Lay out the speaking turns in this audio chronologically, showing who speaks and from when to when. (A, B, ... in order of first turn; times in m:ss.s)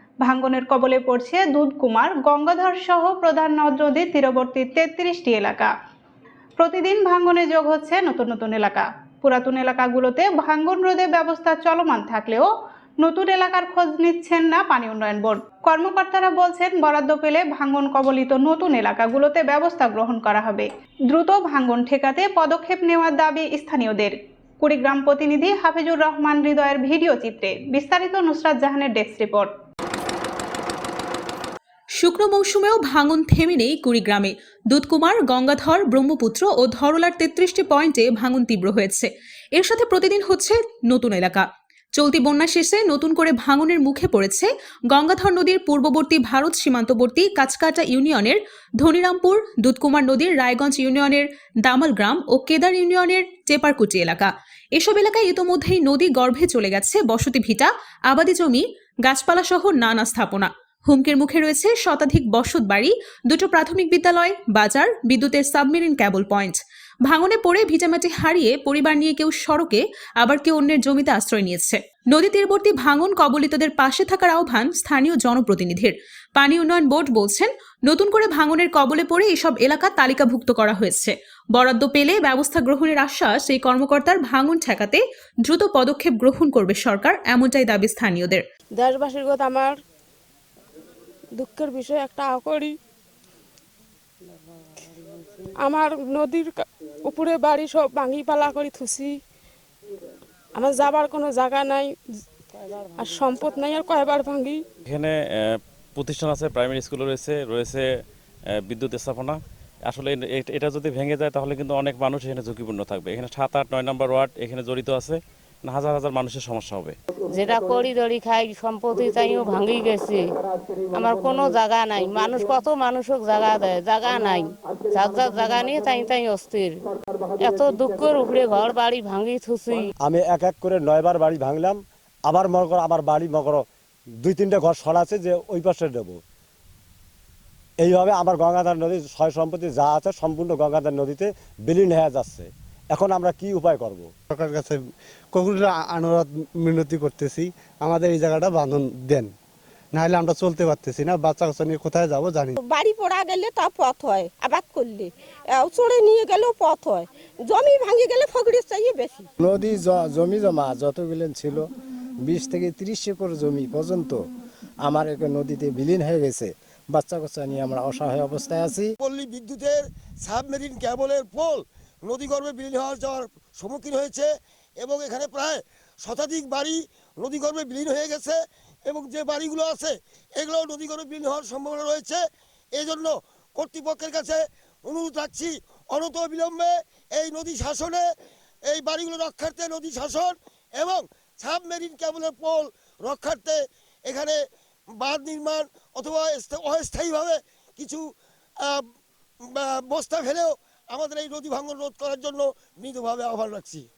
0:00.2-0:05.7 A
0:06.6-0:12.5 A
0:13.0-0:29.5 A
0:32.0-1:28.4 B
1:28.8-1:29.8 C
1:31.4-1:32.8 C
1:35.4-1:39.2 C
1:40.5-1:42.2 C
1:42.9-1:44.6 C
1:44.8-1:47.9 D
1:48.5-1:57.0 D
1:57.3-2:00.2 E
2:00.9-2:06.8 E
2:07.4-2:09.9 E
2:10.0-2:13.6 F
2:14.2-2:16.2 F
2:17.8-2:24.1 F
2:24.3-2:29.3 G
2:29.9-2:32.5 G
2:32.6-2:39.3 H
2:39.4-2:41.6 I
2:42.2-2:44.2 I
2:44.8-2:48.9 I
2:49.0-3:02.2 J
3:02.7-3:08.0 J
3:08.7-3:14.4 J
3:15.0-3:18.0 J
3:19.5-3:23.8 J